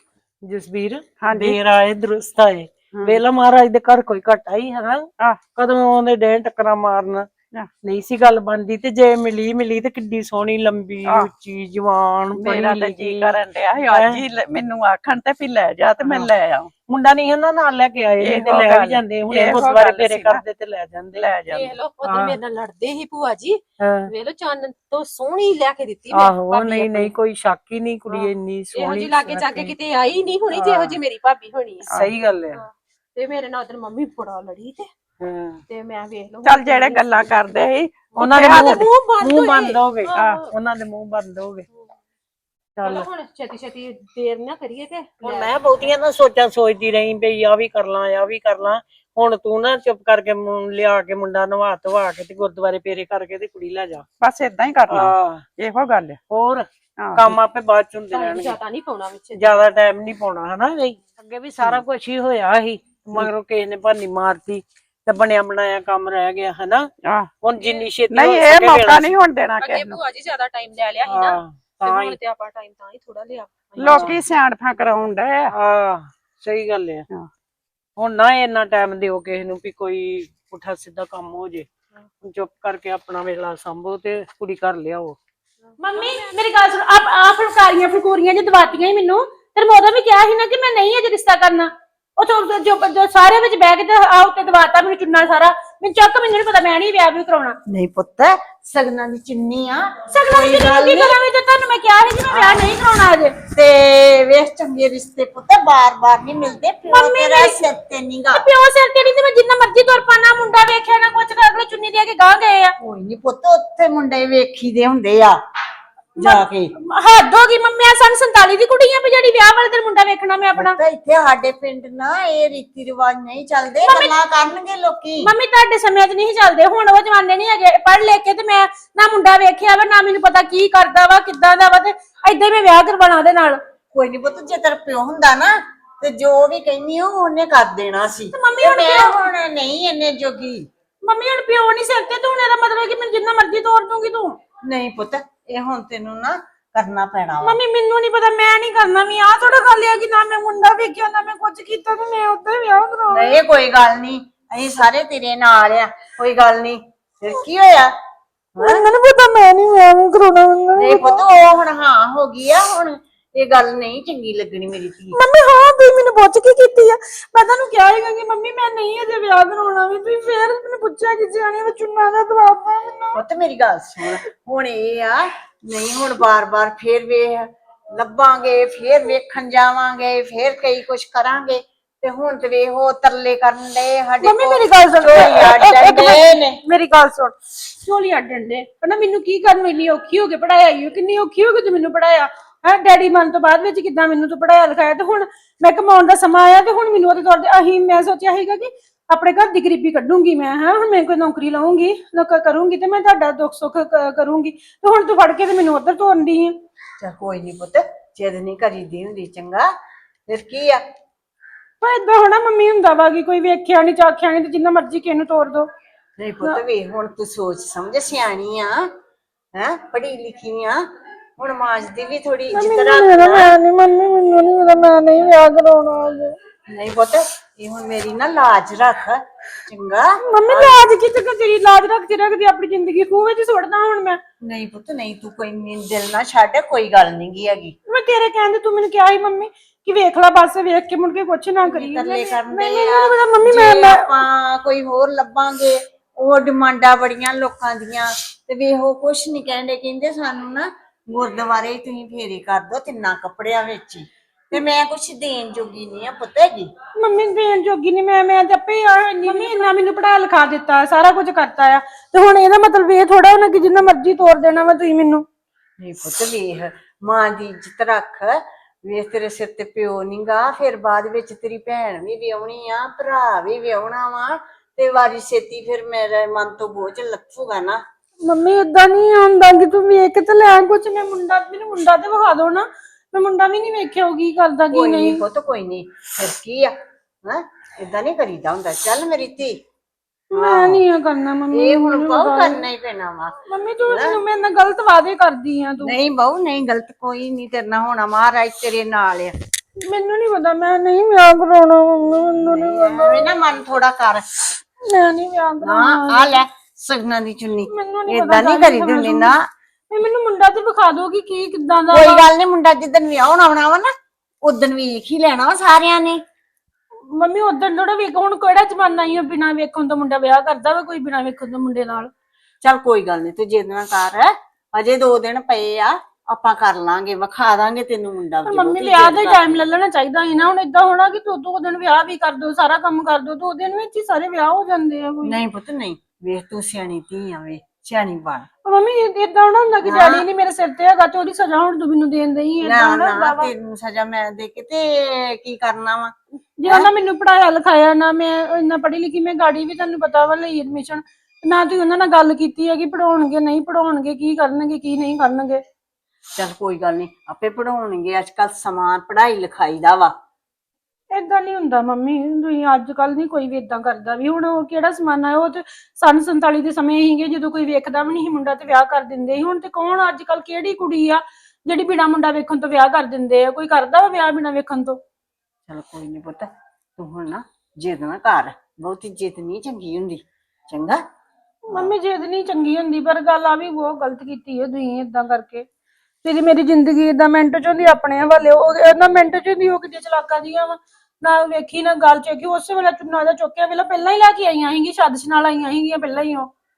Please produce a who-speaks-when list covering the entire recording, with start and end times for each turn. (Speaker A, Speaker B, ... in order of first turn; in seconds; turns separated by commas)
Speaker A: 0.4-7.3, Speaker B: 1.2-1.6, Speaker B: 2.9-3.2, Speaker A: 7.8-14.2, Speaker B: 12.3-16.7, Speaker A: 16.0-16.3, Speaker A: 16.9-22.4, Speaker B: 18.2-20.4, Speaker B: 21.1-21.7, Speaker C: 21.5-27.1, Speaker A: 23.8-24.1, Speaker A: 26.1-29.8, Speaker C: 28.1-31.9, Speaker A: 30.5-31.0, Speaker A: 31.9-32.6, Speaker C: 32.5-34.9, Speaker A: 35.2-35.6, Speaker C: 35.7-37.3, Speaker B: 36.4-38.9, Speaker A: 38.1-41.7, Speaker C: 38.2-40.5, Speaker B: 40.1-40.4, Speaker A: 42.8-43.1, Speaker C: 42.8-45.5, Speaker A: 45.2-54.1, Speaker B: 54.2-56.2, Speaker A: 54.9-55.5, Speaker A: 56.3-58.6, Speaker B: 57.0-57.4, Speaker C: 58.1-59.6, Speaker A: 59.4-66.9, Speaker B: 67.0-67.3, Speaker A: 67.4-69.1, Speaker C: 67.6-67.8, Speaker B: 68.1-70.0, Speaker C: 69.6-74.2, Speaker A: 71.0-72.2, Speaker A: 73.8-74.2, Speaker B: 73.8-75.5, Speaker A: 75.5-77.1, Speaker A: 78.0-81.7, Speaker A: 82.2-85.2, Speaker C: 85.7-86.3, Speaker D: 85.8-97.6, Speaker E: 97.7-101.2, Speaker D: 100.1-103.4, Speaker E: 102.3-102.7, Speaker E: 103.4-108.5, Speaker D: 106.9-107.6, Speaker D: 108.3-112.8, Speaker E: 112.8-115.4, Speaker E: 116.2-116.7, Speaker D: 116.2-120.8, Speaker E: 120.5-125.3, Speaker D: 123.8-124.1, Speaker D: 125.2-133.6, Speaker E: 133.9-140.7, Speaker D: 138.3-139.3, Speaker D: 141.0-144.4, Speaker E: 144.6-147.6, Speaker D: 147.4-153.4, Speaker E: 153.1-157.9, Speaker E: 158.6-158.9, Speaker D: 158.6-161.5, Speaker E: 160.7-165.2, Speaker D: 165.1-173.2, Speaker E: 173.1-186.6, Speaker D: 184.2-206.6, Speaker E: 207.0-209.8, Speaker E: 210.3-210.8, Speaker D: 211.8-215.7, Speaker E: 216.2-218.9, Speaker E: 219.6-220.9, Speaker E: 221.4-223.6, Speaker D: 222.5-226.4, Speaker E: 226.7-230.8, Speaker D: 230.2-234.2, Speaker E: 234.4-237.8, Speaker D: 237.9-244.2, Speaker E: 241.7-256.7, Speaker D: 257.0-265.2, Speaker E: 259.3-259.6, Speaker E: 265.8-277.8, Speaker D: 278.2-285.2, Speaker E: 284.7-289.6, Speaker D: 290.3-292.7, Speaker E: 290.4-290.8, Speaker E: 291.5-294.2, Speaker D: 293.5-295.9, Speaker E: 295.8-299.3, Speaker D: 299.8-303.3, Speaker E: 302.4-304.5, Speaker D: 304.8-306.4, Speaker E: 305.6-309.4, Speaker D: 307.7-309.4, Speaker D: 309.9-312.3, Speaker E: 311.9-316.2, Speaker D: 317.1-322.1, Speaker E: 322.6-329.7, Speaker D: 328.5-335.4, Speaker E: 335.2-338.5, Speaker D: 338.6-343.5, Speaker E: 339.8-340.3, Speaker E: 342.6-346.9, Speaker D: 346.6-355.6, Speaker E: 356.4-360.1, Speaker D: 361.1-375.0, Speaker E: 375.7-381.0, Speaker D: 381.7-385.7, Speaker D: 386.2-396.5